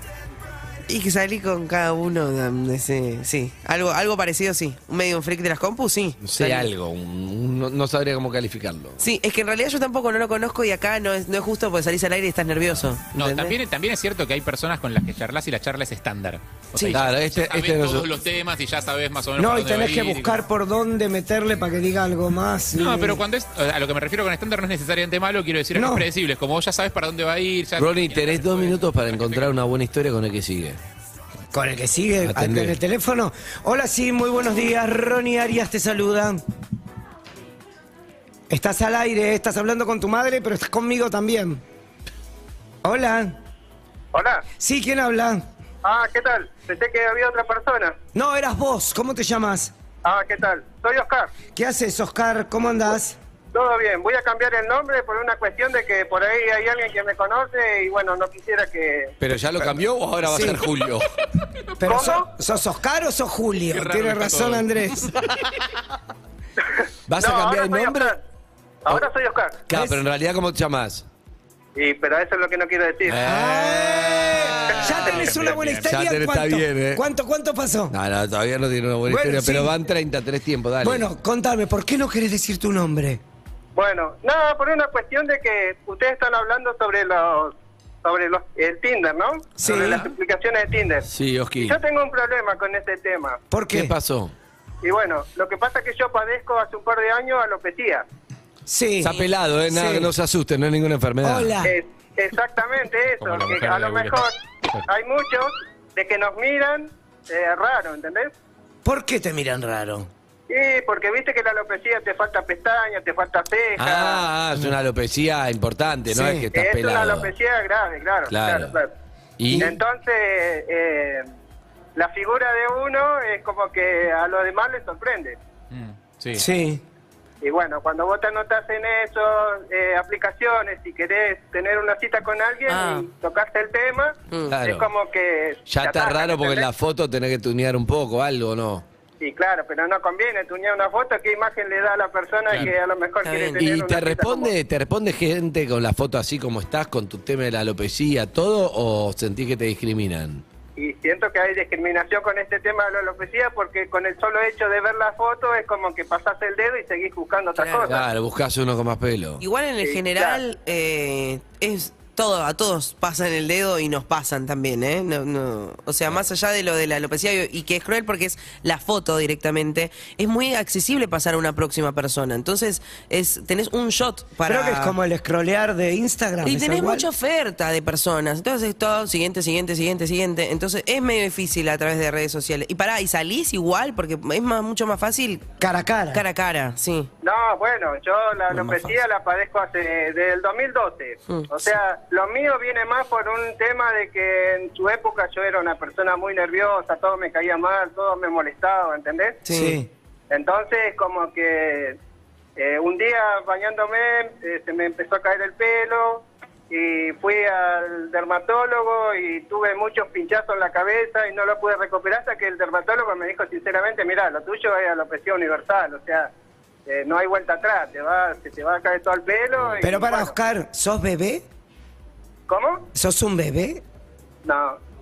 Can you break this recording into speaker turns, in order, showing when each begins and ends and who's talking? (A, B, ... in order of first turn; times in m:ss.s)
0:00.9-0:06.7 A
0:06.2-0:09.0 B
0:09.0-0:13.6 A
0:13.2-0:20.3 C
0:16.7-0:17.0 A
0:16.9-0:18.1 B
0:19.4-0:23.2 D
0:22.8-0:29.6 C
0:25.7-0:26.1 D
0:27.8-0:30.8 B
0:31.5-0:36.4 D
0:32.2-0:32.8 B
0:38.5-0:41.6 D
0:42.8-0:43.4 D
0:44.1-0:44.4 E
0:44.6-0:45.4 D
0:45.8-0:48.0 E
0:48.1-0:49.7 D
0:50.0-0:51.3 E
0:51.5-0:53.2 D
0:53.5-0:59.1 E
0:59.2-1:01.0 B
1:00.2-1:00.6 D
1:01.8-1:05.1 D
1:01.8-1:02.3 E
1:03.7-1:04.7 C
1:07.1-1:08.1 B
1:07.2-1:08.2 E
1:08.8-1:09.6 E
1:09.7-1:11.0 B
1:11.7-1:13.2 E
1:13.0-1:15.2 B
1:13.2-1:17.9 D
1:14.7-1:15.2 E
1:15.0-1:16.0 C
1:15.8-1:17.0 B
1:17.9-1:21.0 B
1:19.0-1:19.7 D
1:20.8-1:23.2 D
1:23.8-1:33.4 E
1:29.6-1:30.0 D
1:31.1-1:31.8 B
1:33.5-1:33.9 D
1:33.7-1:34.3 B
1:34.8-1:38.0 E
1:38.7-1:40.1 D
1:39.0-1:41.6 B
1:41.2-1:41.7 D
1:41.6-1:44.4 E
1:43.2-1:44.8 C
1:44.9-1:48.3 E
1:48.8-1:50.1 D
1:50.5-1:54.2 E
1:53.8-1:57.3 B
1:56.1-1:56.4 D
1:56.5-1:58.9 E
1:58.3-1:58.8 B
1:59.4-1:59.8 B
1:59.6-2:01.2 E
2:02.0-2:05.4 E
2:05.7-2:06.4 C
2:06.3-2:06.8 D
2:07.4-2:16.7 E
2:12.7-2:13.1 A
2:14.3-2:14.6 A
2:14.5-2:14.9 B
2:15.7-2:18.8 B
2:19.2-2:24.5 E
2:23.2-2:23.6 A
2:23.6-2:30.4 B
2:30.8-2:38.0 E
2:37.6-2:38.0 A
2:37.8-2:39.4 B
2:39.4-2:55.0 A
2:39.8-2:40.4 E
2:54.4-2:57.1 D
2:56.4-3:05.6 A
3:05.6-3:06.2 D
3:06.1-3:07.1 A
3:07.2-3:19.4 E
3:08.5-3:09.0 A
3:19.4-3:19.8 A
3:19.5-3:19.9 D
3:20.3-3:22.0 E
3:22.6-3:36.3 E
3:36.8-3:40.3 E
3:39.8-3:41.4 D
3:42.5-3:42.8 E
3:42.9-3:43.8 D
3:44.4-3:44.8 E